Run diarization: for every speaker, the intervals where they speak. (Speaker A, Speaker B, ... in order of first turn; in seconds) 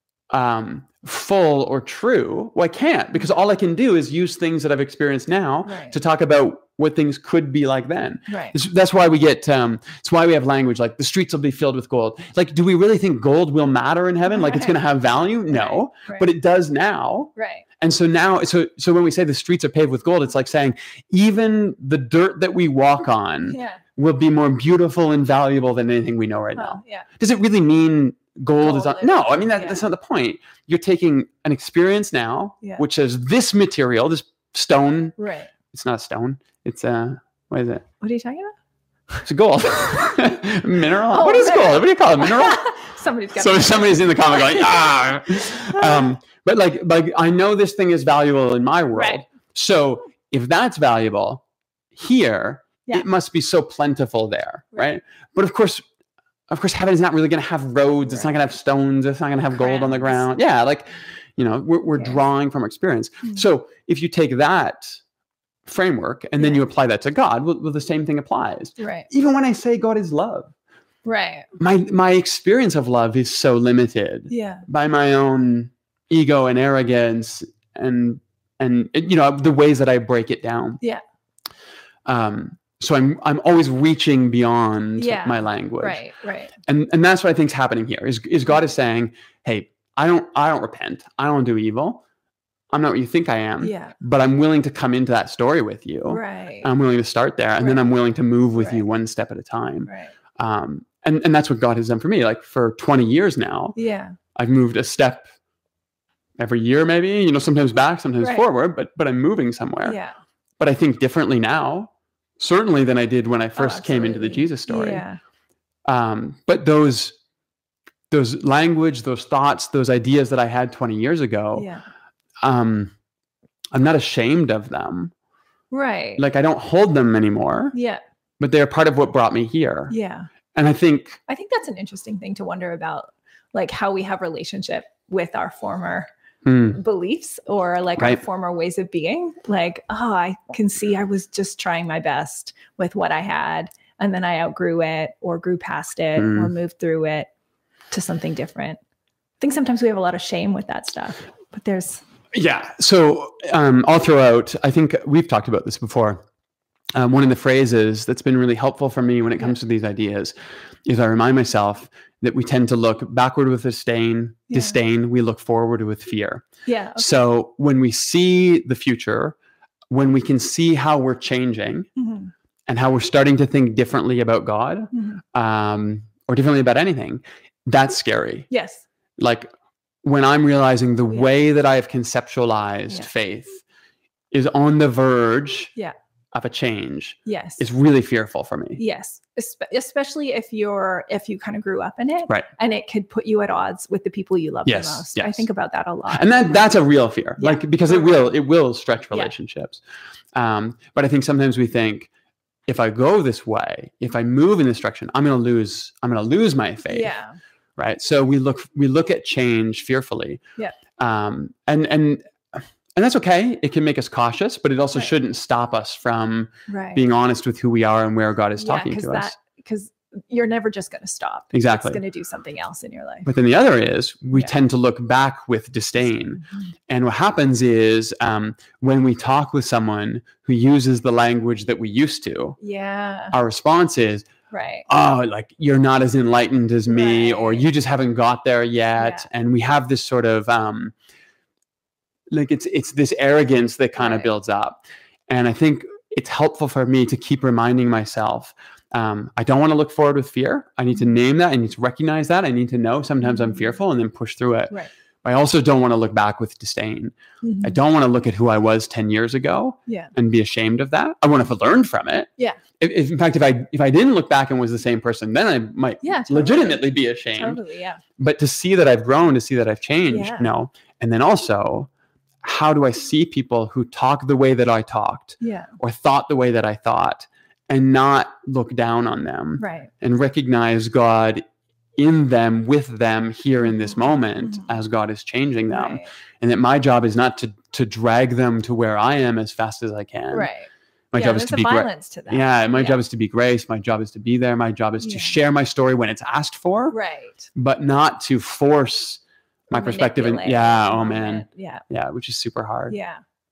Speaker A: 0.3-35.2, 35.7-37.9, 39.2-42.6, 43.4-51.4, 51.9-55.9, 56.5-60.9, 61.4-65.0, 65.7-70.5, 71.6-80.8, 82.1-86.0, 86.7-92.0, 92.7-103.8, 104.3-105.3, 106.4-110.0, 110.6-115.0, 115.8-117.1, 118.1-121.7, 122.4-122.9, 123.7-125.1, 126.2-127.8, 128.4-129.9, 130.5-131.2, 136.4-136.8, 146.2-146.5, 152.3-156.2, 156.9-160.3, 160.9-166.4, 167.0-169.4, 169.9-171.9, 172.7-178.5, 179.2-179.5, 180.0-183.6, 184.3-185.7, 186.3-188.8, 194.7-195.4, 196.1-199.8, 200.3-202.1, 202.7-207.1, 207.8-210.4, 211.0-212.2, 212.9-219.3, 221.5-222.0, 223.2-232.6, 233.3-234.3, 234.9-240.9, 242.3-254.7, 255.2-267.6, 268.2-271.9, 272.4-281.4, 282.0-290.5, 291.1-297.0, 297.5-303.0
Speaker B: 5.7-6.0, 8.3-8.6, 14.3-14.8, 15.5-16.3, 17.4-17.6, 23.4-23.8, 26.6-27.1, 28.6-29.8, 35.2-35.5, 38.0-38.5, 41.1-44.9, 45.6-46.1, 48.9-49.2, 59.6-60.2, 66.4-66.6, 68.8-69.1, 71.0-71.5, 74.3-74.6, 85.0-86.5, 93.6-93.9, 96.1-96.7, 97.6-97.9, 98.6-98.8, 99.9-100.1, 103.8-104.2, 109.8-110.1, 113.6-115.2, 121.5-121.8, 125.7-126.2, 127.7-128.0, 129.9-130.3, 131.3-136.1, 136.7-147.3, 147.9-148.8, 149.4-152.0, 164.5-164.8, 166.7-167.1, 172.0-172.3, 174.9-175.2, 178.5-178.8, 187.2-187.6, 188.8-196.6, 197.4-198.3, 206.9-207.4, 216.7-217.0, 218.6-223.3, 232.6-233.4, 234.5-234.9, 236.9-237.7, 239.0-239.2, 244.0-244.3, 253.2-253.6, 257.4-257.8, 259.9-260.1, 266.0-268.0, 270.1-270.5, 275.4-275.7, 279.6-279.9, 284.4-284.6, 285.7-286.1, 290.3-293.0, 295.0-295.4, 296.9-297.5, 299.7-301.8, 302.9-303.2